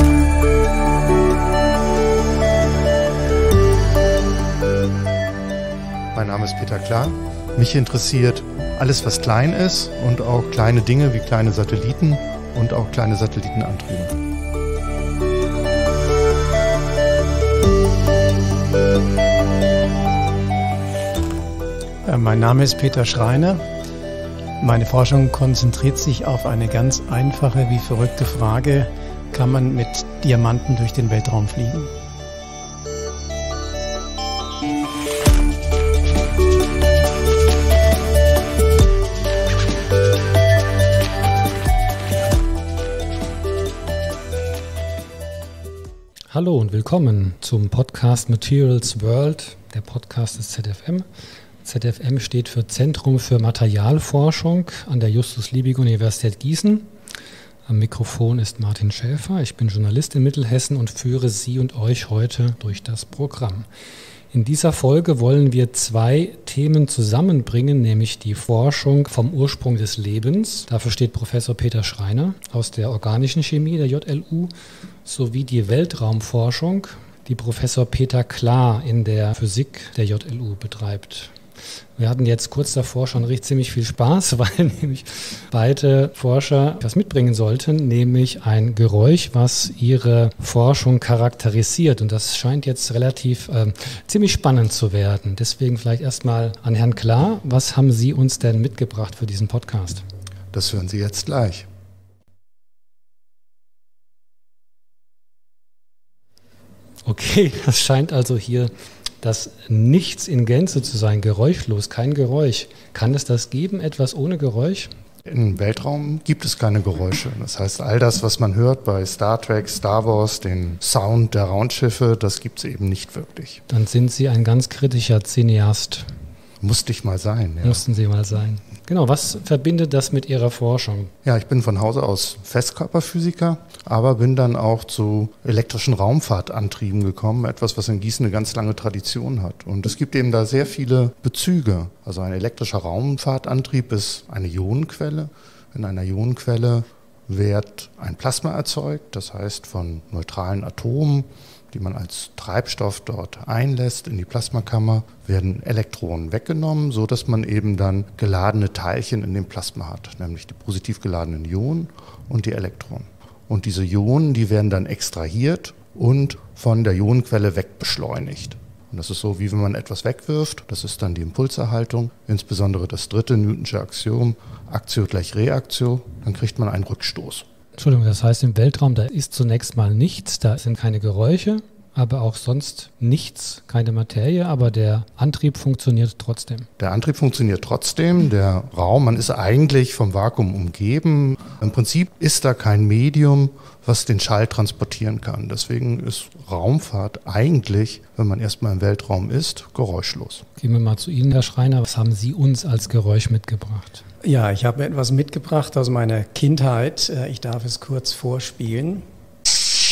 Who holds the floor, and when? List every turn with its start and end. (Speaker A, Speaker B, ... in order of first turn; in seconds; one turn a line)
Speaker A: 6.1-14.2
Speaker B: 22.1-23.6
Speaker B: 24.6-31.9
Speaker C: 46.3-51.1
Speaker C: 51.6-56.9
Speaker C: 57.7-63.7
Speaker C: 64.3-74.5
Speaker C: 75.0-81.4
Speaker C: 82.0-100.0
Speaker A: 100.5-101.7
Speaker C: 107.0-114.9
Speaker A: 115.2-123.6
Speaker C: 123.7-126.1
Speaker A: 126.6-127.8
Speaker C: 127.6-131.1
Speaker A: 131.2-177.4
Speaker C: 177.8-186.7
Speaker A: 186.8-200.4
Speaker C: 200.6-204.0
Speaker B: 204.2-209.0